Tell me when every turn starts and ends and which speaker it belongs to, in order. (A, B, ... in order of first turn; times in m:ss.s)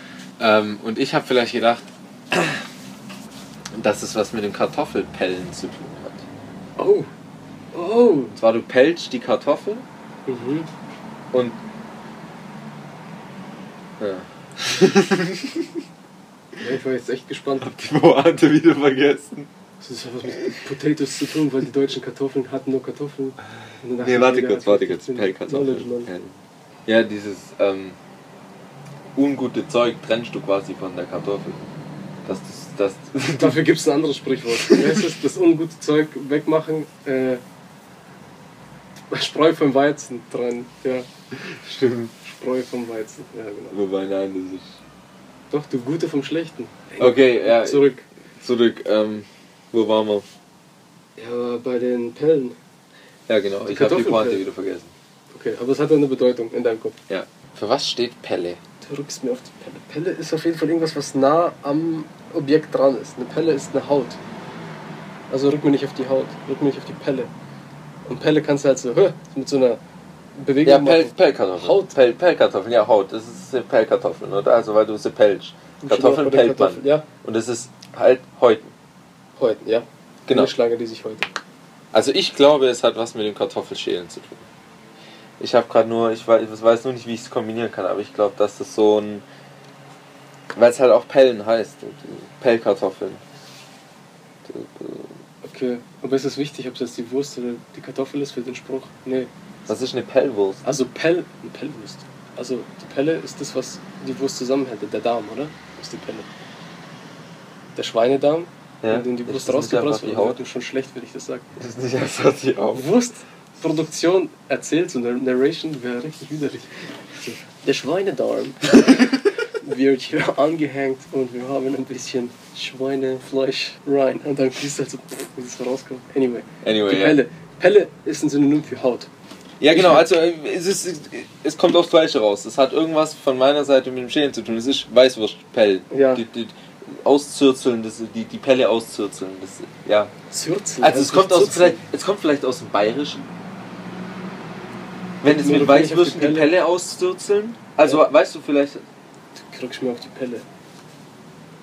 0:00.4-0:02.6 A
0:03.7-0:06.2 A
0:06.8-0:07.1 B
0:07.7-0:08.4 B
0:08.4-0:09.8 A
0:10.3-0:10.7 B
0:11.3-0:11.6 A
0:14.0-0:15.6 A
0:16.6-0:17.7 B
0:17.6-0:19.5 A
0:19.8-0:26.1 B
0:24.0-0:26.4 A
0:26.9-0:28.0 A
0:29.2-0:31.6 A
0:32.2-0:33.7 A
0:33.4-0:37.4 B
0:34.6-0:35.0 A
0:39.1-0:41.1 B
0:41.3-0:42.1 A
0:42.2-0:43.8 B
0:43.7-0:44.8 A
0:45.5-0:48.0 B
0:47.0-0:47.9 A
0:48.4-0:50.3 A
0:51.2-0:52.6 B
0:53.3-0:54.9 A
0:53.7-0:54.4 B
0:55.3-0:57.0 B
0:57.1-0:58.6 A
0:58.8-1:04.2 B
1:05.3-1:07.3 B
1:08.1-1:09.8 B
1:10.4-1:11.9 B
1:10.6-1:18.7 A
1:15.8-1:17.1 B
1:19.4-1:21.3 B
1:20.3-1:20.5 A
1:21.9-1:24.5 A
1:25.4-1:29.2 A
1:30.6-1:33.2 A
1:34.4-1:35.2 A
1:35.4-1:39.3 B
1:39.7-1:40.6 A
1:40.6-1:46.3 B
1:47.8-1:51.4 B
1:48.8-1:50.4 A
1:51.6-1:52.8 A
1:52.7-2:09.1 B
2:06.6-2:07.2 A
2:09.6-2:20.1 A
2:09.7-2:10.1 B
2:15.9-2:16.2 B
2:20.3-2:21.8 B
2:20.8-2:23.3 A
2:25.2-2:28.8 A
2:25.2-2:26.5 B
2:29.4-2:30.4 B